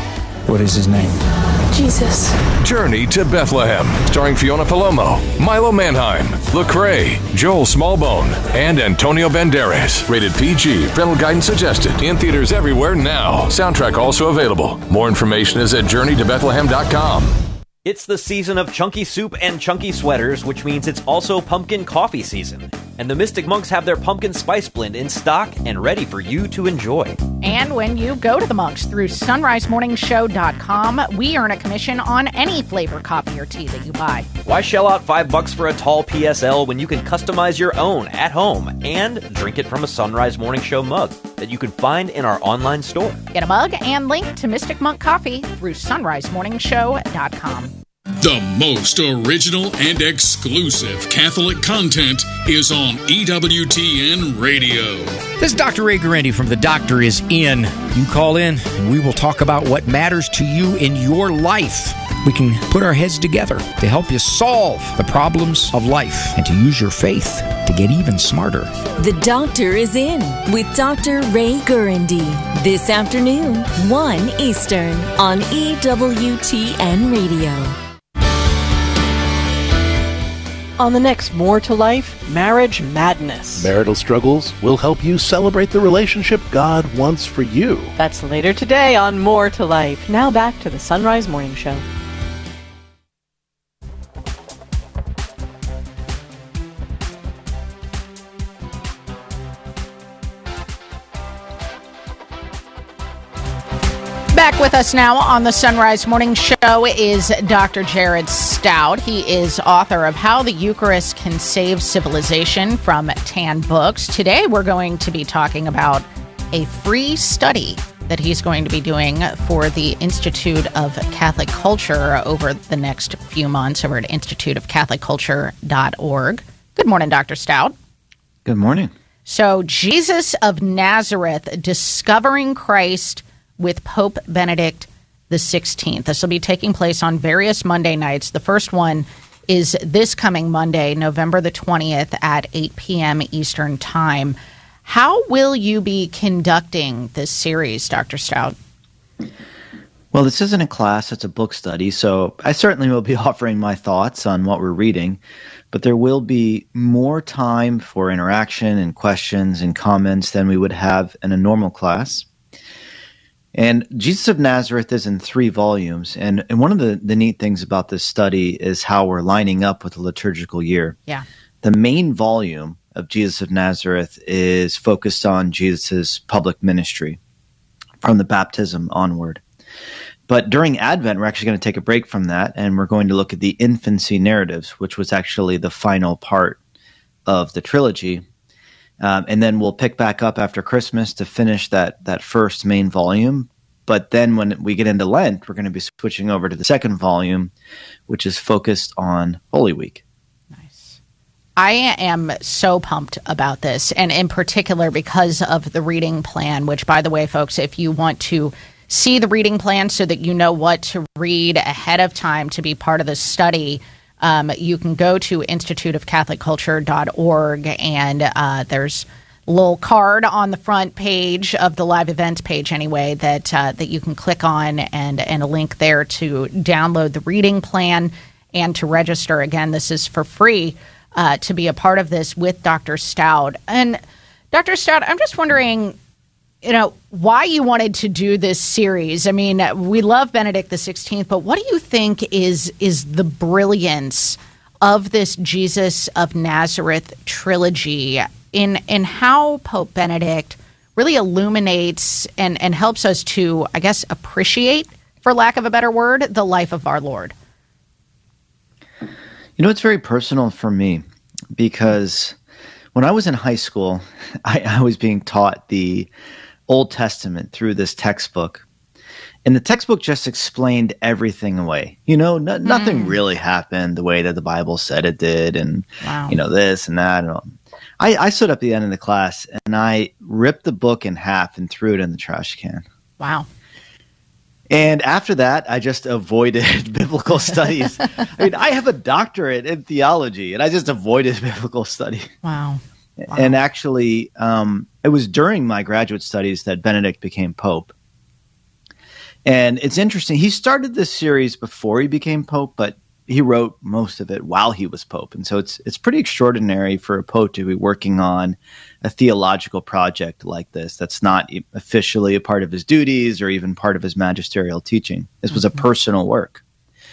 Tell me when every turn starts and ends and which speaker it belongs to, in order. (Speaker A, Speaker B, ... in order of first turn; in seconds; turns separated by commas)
Speaker A: 0.5-1.2, Speaker B: 2.6-17.3, Speaker C: 17.9-27.2, Speaker D: 27.4-34.3, Speaker C: 34.5-43.2, Speaker D: 43.3-47.7, Speaker E: 48.2-55.2, Speaker F: 55.4-68.7, Speaker G: 69.0-77.7, Speaker H: 80.8-83.7, Speaker A: 83.5-87.9, Speaker H: 88.0-91.8, Speaker D: 104.3-127.8, Speaker I: 128.4-128.9, Speaker D: 129.3-148.6, Speaker I: 150.1-155.2, Speaker I: 155.7-162.3, Speaker I: 163.6-171.0, Speaker I: 171.6-177.2, Speaker I: 178.0-179.4, Speaker I: 180.3-186.6, Speaker I: 187.3-188.2, Speaker I: 189.0-197.5, Speaker I: 198.1-200.0, Speaker D: 200.6-201.0, Speaker D: 201.6-234.0, Speaker D: 234.5-236.0, Speaker D: 236.6-257.4, Speaker I: 259.6-261.0, Speaker I: 261.6-262.4, Speaker I: 262.9-266.1, Speaker I: 266.7-268.6, Speaker I: 269.4-282.9, Speaker D: 272.6-273.2, Speaker D: 276.0-276.4, Speaker D: 283.2-283.5, Speaker I: 284.7-292.3, Speaker D: 292.4-293.6, Speaker I: 293.3-297.9, Speaker I: 299.5-316.6